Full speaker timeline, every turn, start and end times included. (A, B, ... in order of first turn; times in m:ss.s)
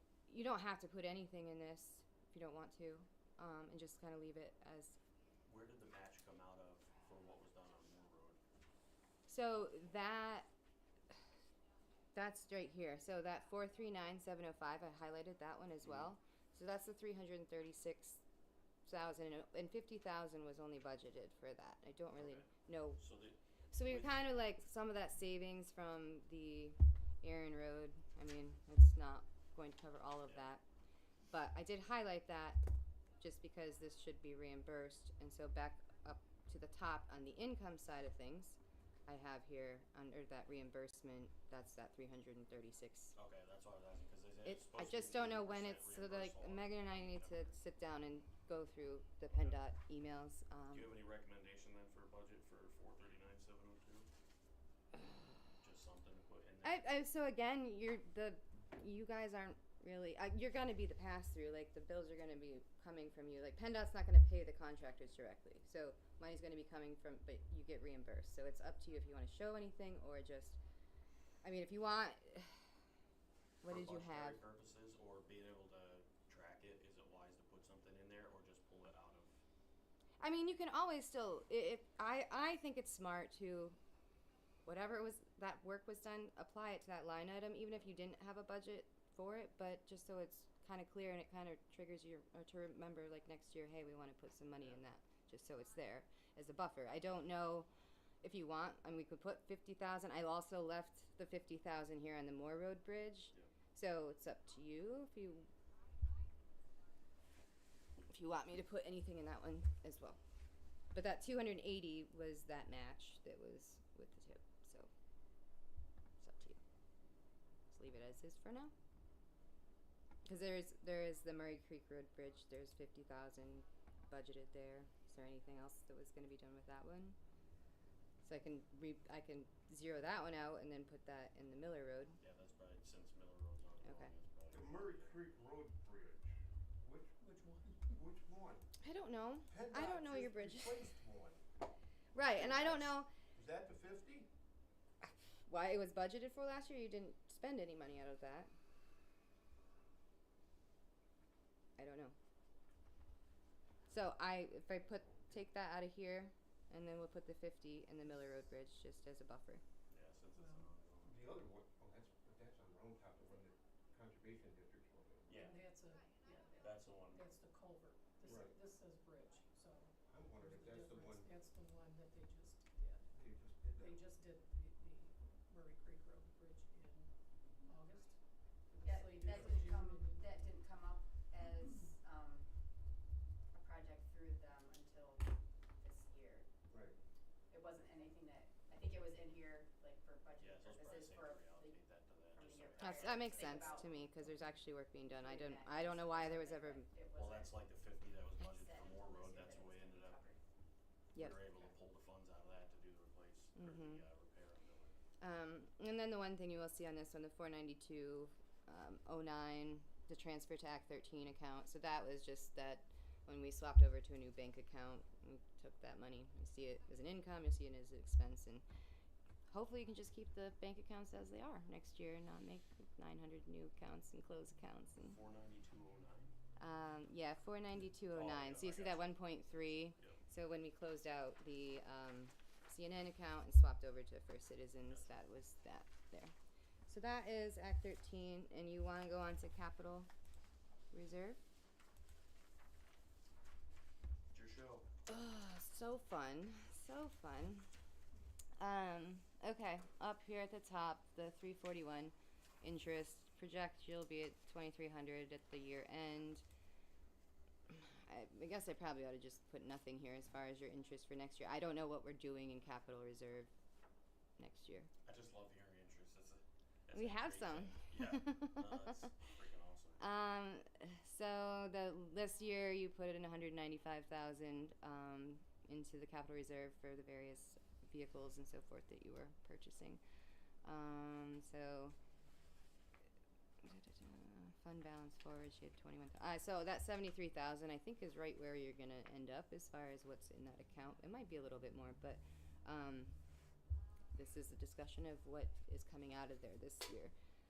0:00.3-0:05.0 A
0:05.5-0:08.4 B
0:09.3-0:10.5 A
0:12.1-0:18.2 A
0:15.8-0:16.1 B
0:18.9-0:23.0 A
0:22.2-0:24.1 B
0:23.7-0:30.6 A
0:31.3-0:32.6 A
0:33.2-0:43.1 A
0:43.2-0:47.5 B
0:44.4-0:50.9 A
0:49.3-0:49.6 B
0:50.7-0:54.1 B
0:55.6-0:56.9 B
0:56.6-1:10.6 A
1:11.4-1:12.6 A
1:13.6-1:14.4 A
1:13.7-1:19.4 B
1:20.2-1:23.8 A
1:24.6-1:37.7 A
1:38.2-1:45.5 A
1:48.1-1:50.2 A
1:50.9-1:54.9 A
1:56.2-1:56.6 A
1:57.7-1:58.7 A
2:00.2-2:07.2 A
2:08.2-2:12.2 A
2:12.2-2:15.1 B
2:13.8-2:14.1 A
2:14.5-2:17.2 C
2:17.2-2:18.0 D
2:17.9-2:18.7 C
2:18.8-2:20.9 A
2:19.5-2:21.4 C
2:22.1-2:23.1 A
2:22.3-2:24.3 C
2:25.0-2:28.5 A
2:31.8-2:32.2 A
2:33.9-2:39.6 A
2:39.9-2:41.3 B
2:40.4-2:40.7 D
2:41.0-2:45.4 C
2:45.3-2:45.7 B
2:45.3-3:00.4 D
2:46.6-2:47.2 B
2:48.2-2:48.6 C
2:50.0-2:51.3 C
2:53.1-2:54.0 C
2:58.8-3:02.5 E
3:01.4-3:02.0 D
3:03.5-3:06.5 E
3:06.7-3:07.0 C
3:07.5-3:11.8 E
3:10.4-3:13.8 B
3:12.3-3:14.2 E
3:12.8-3:16.9 A
3:15.1-3:17.7 E
3:17.1-3:20.3 B
3:18.4-3:20.4 E
3:21.1-3:25.0 B
3:21.4-3:21.7 E
3:23.6-3:24.0 A
3:25.2-3:38.6 A
3:39.5-3:45.2 A
3:45.0-3:46.3 B
3:46.6-3:56.3 A
3:48.1-3:50.2 B
3:56.9-4:00.1 A
4:00.9-4:01.4 A
4:04.3-4:04.9 B
4:05.1-4:07.7 A
4:08.6-4:16.4 A
4:17.7-4:23.5 A
4:24.4-4:24.9 A
4:25.0-4:30.1 B
4:26.9-4:29.1 A
4:30.0-4:40.0 A
4:40.6-4:42.0 A
4:43.6-4:53.2 A
4:54.2-4:57.1 A